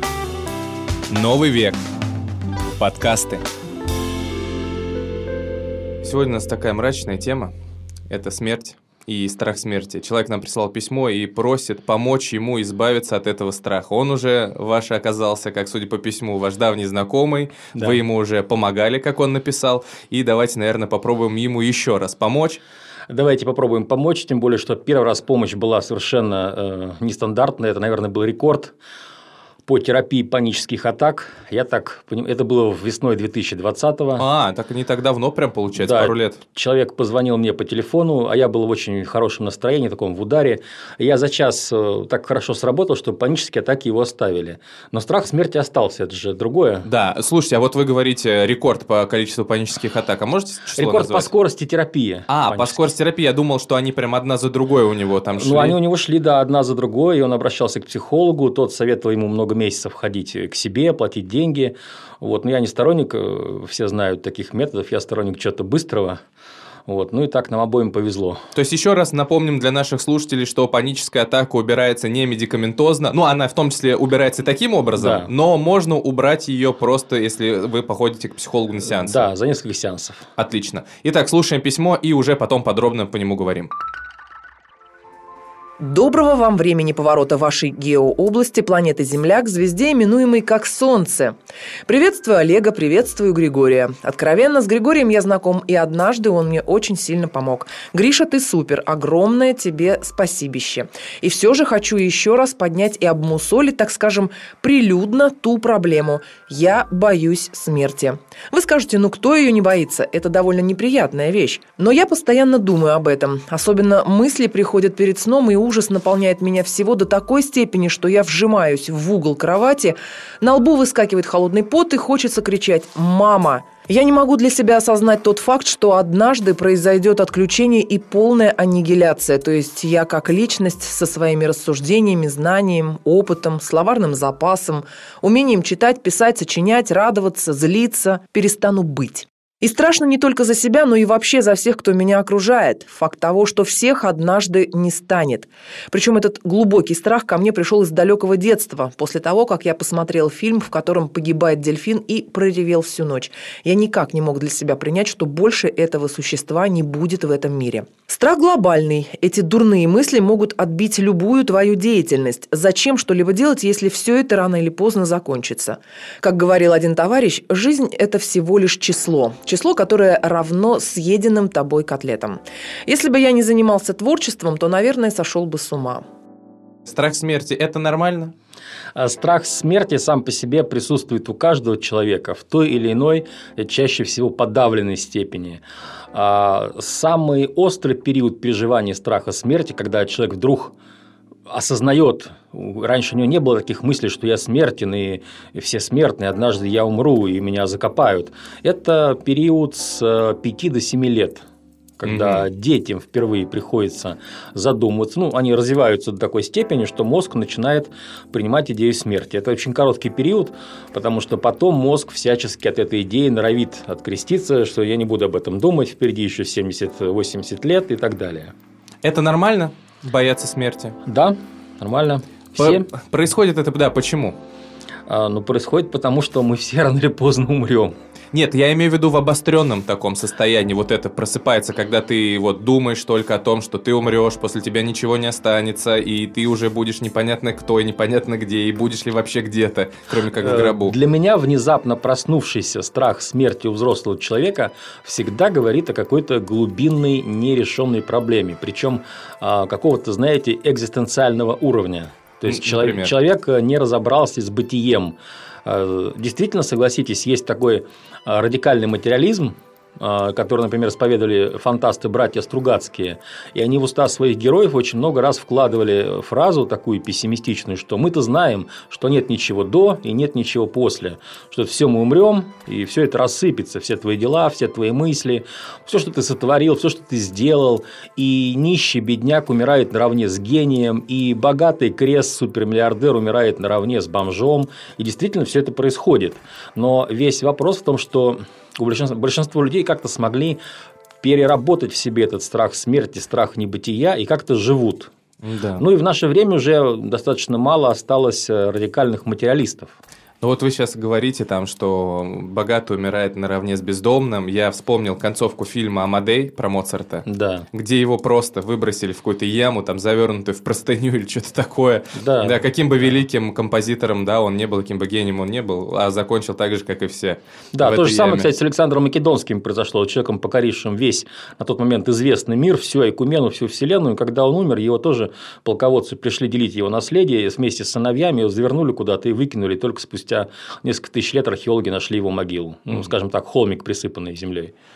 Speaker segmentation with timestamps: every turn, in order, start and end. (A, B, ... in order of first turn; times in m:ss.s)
0:01.1-0:01.8 A
0:02.8-0:03.4 A
0:06.0-0:07.5 A
0:08.1-0:22.6 A
0:23.1-0:28.8 B
0:29.7-0:34.2 B
0:34.2-0:36.4 A
0:35.8-0:46.9 B
0:46.8-0:51.3 A
0:50.8-0:52.8 B
0:52.3-0:55.8 A
0:55.4-1:06.2 B
1:06.9-1:08.5 B
1:08.6-1:19.3 A
1:15.0-1:15.3 B
1:18.9-1:20.2 B
1:20.4-1:23.7 A
1:25.8-1:31.4 C
1:31.9-2:56.0 C
2:56.9-2:58.3 A
2:59.0-3:05.6 B
3:06.1-3:10.7 B
3:11.5-3:21.4 B
3:22.0-3:38.5 B
3:22.0-3:22.5 A
3:39.0-3:41.0 A
3:41.0-3:42.9 B
3:42.6-3:44.4 A
3:45.1-3:47.9 B
3:48.3-4:01.0 A
4:00.4-4:50.6 B
4:12.4-4:13.1 A
4:51.2-4:55.1 B
4:55.4-4:55.8 A
4:55.8-4:59.9 B
5:00.4-5:18.5 A
5:07.3-5:07.7 B
5:12.2-5:12.6 B
5:17.7-5:34.7 B